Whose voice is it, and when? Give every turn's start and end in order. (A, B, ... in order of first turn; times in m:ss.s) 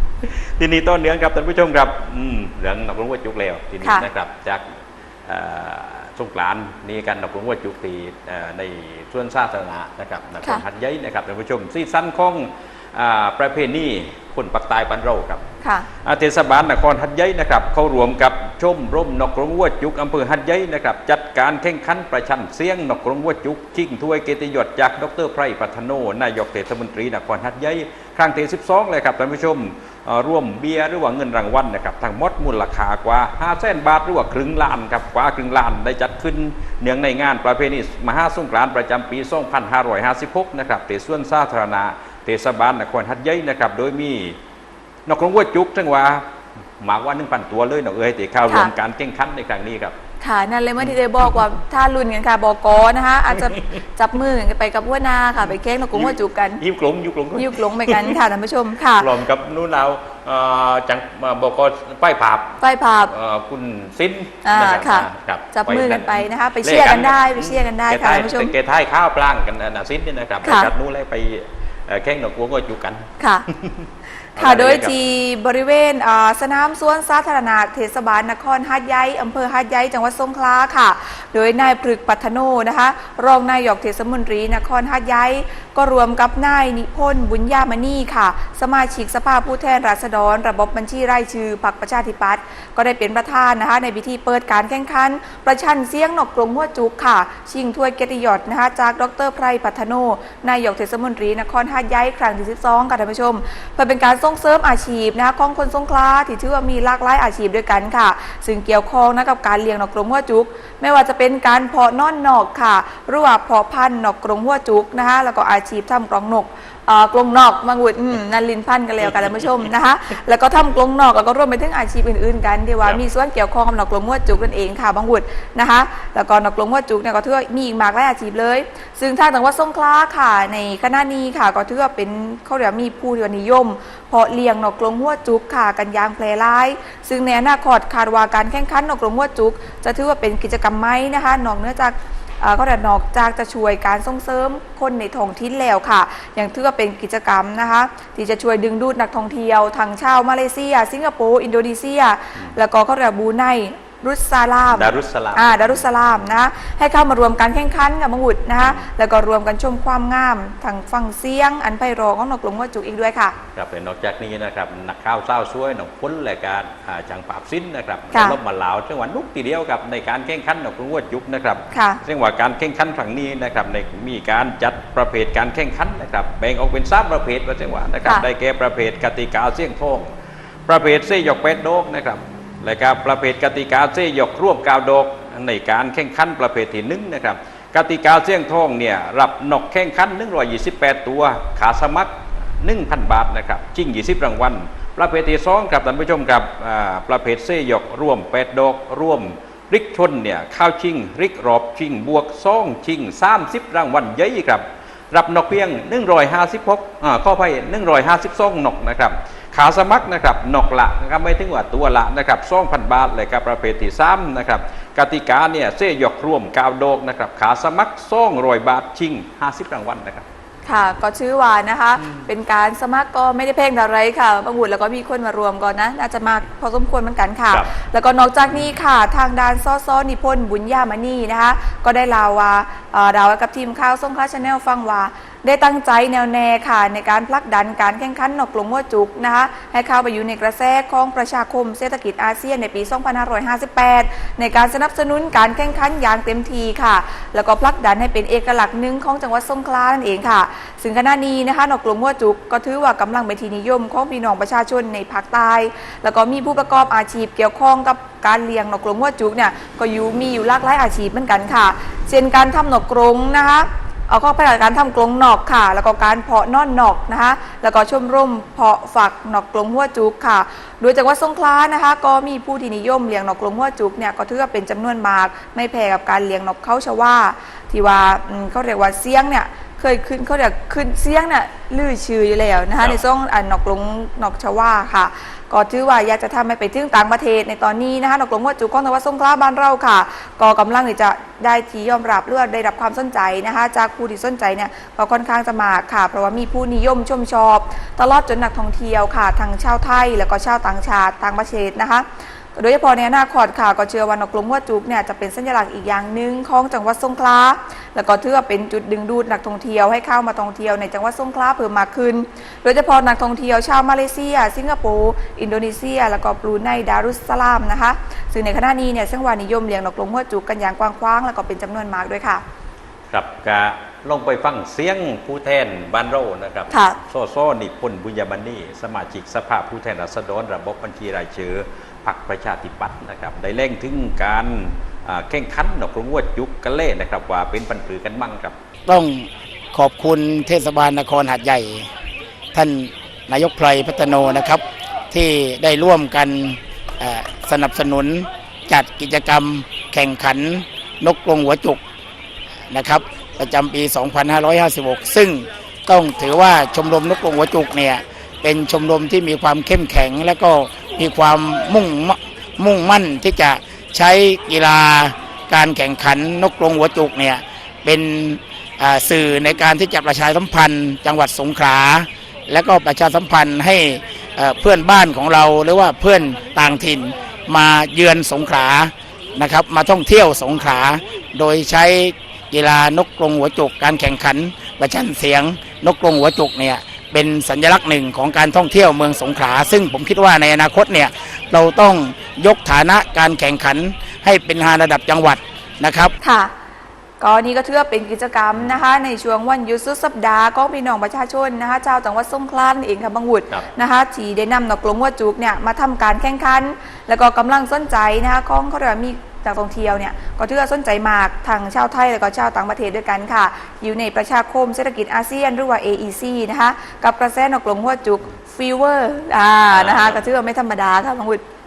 0:00.2-0:04.6 A
0:05.3-0:15.4 A
0:15.6-0:15.9 B
0:16.0-0:44.4 A
0:45.0-0:46.2 A
0:46.8-0:50.0 A
0:50.2-0:56.6 B
0:55.9-0:58.2 A
0:57.4-0:59.1 B
0:59.0-1:14.9 A
1:02.6-1:03.1 B
1:04.4-1:08.5 B
1:10.4-1:10.7 B
1:13.2-1:13.4 B
1:14.4-2:43.3 B
2:34.7-2:35.9 A
2:38.6-2:38.9 A
2:43.5-3:00.1 A
2:51.7-2:52.0 B
3:00.7-3:40.2 A
3:40.6-5:22.4 B
5:23.1-5:38.6 A
5:26.7-5:27.0 B
5:38.8-5:41.9 C
5:42.5-5:51.8 C
5:52.7-6:36.1 C
6:36.2-6:36.5 B
6:37.2-7:01.4 B
6:59.7-7:00.2 A